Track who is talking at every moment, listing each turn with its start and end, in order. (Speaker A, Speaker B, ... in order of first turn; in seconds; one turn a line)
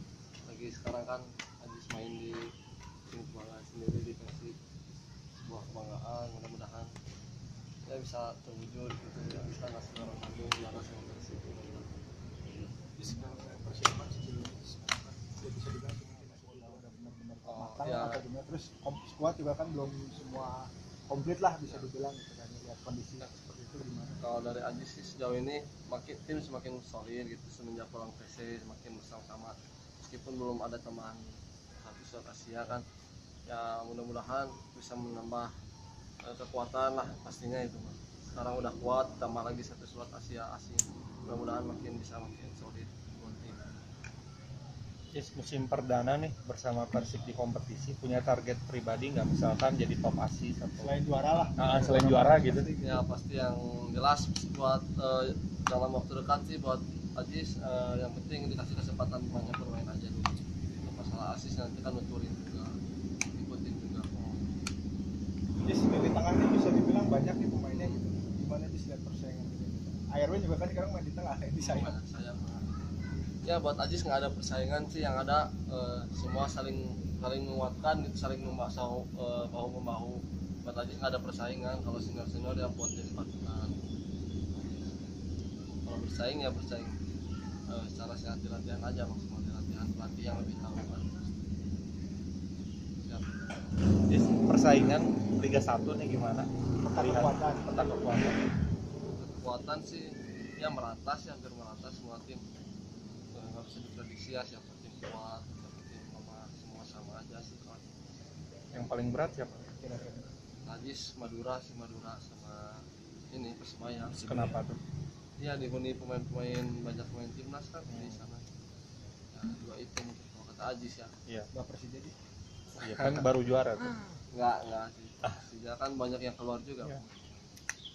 Speaker A: 0.5-2.5
Speaker A: 3.1-4.6
Speaker A: 5.4-6.9
Speaker A: 7.9-11.9
Speaker B: 13.0-24.2
Speaker A: 17.4-18.2
Speaker A: 24.2-32.8
Speaker A: 33.5-35.5
Speaker A: 36.2-43.6
Speaker C: 45.1-50.9
Speaker B: 50.8-52.7
Speaker C: 51.6-52.7
Speaker A: 52.5-62.7
Speaker A: 63.3-64.1
Speaker C: 64.2-64.4
Speaker B: 65.6-72.0
Speaker A: 67.7-68.0
Speaker A: 71.6-72.8
Speaker A: 73.4-83.8
Speaker A: 84.5-84.9
Speaker A: 85.8-87.0
Speaker A: 87.7-91.2
Speaker A: 93.0-93.5
Speaker C: 94.1-98.5
Speaker B: 96.8-97.7
Speaker A: 99.2-102.4
Speaker A: 103.3-107.9
Speaker C: 108.7-109.7
Speaker B: 109.7-110.3
Speaker A: 110.7-114.3
Speaker C: 114.1-114.8
Speaker B: 114.3-114.6
Speaker A: 115.4-118.5
Speaker C: 117.9-118.2
Speaker A: 119.3-121.1
Speaker B: 121.5-122.1
Speaker A: 122.7-123.3
Speaker C: 122.8-124.0
Speaker A: 124.3-127.5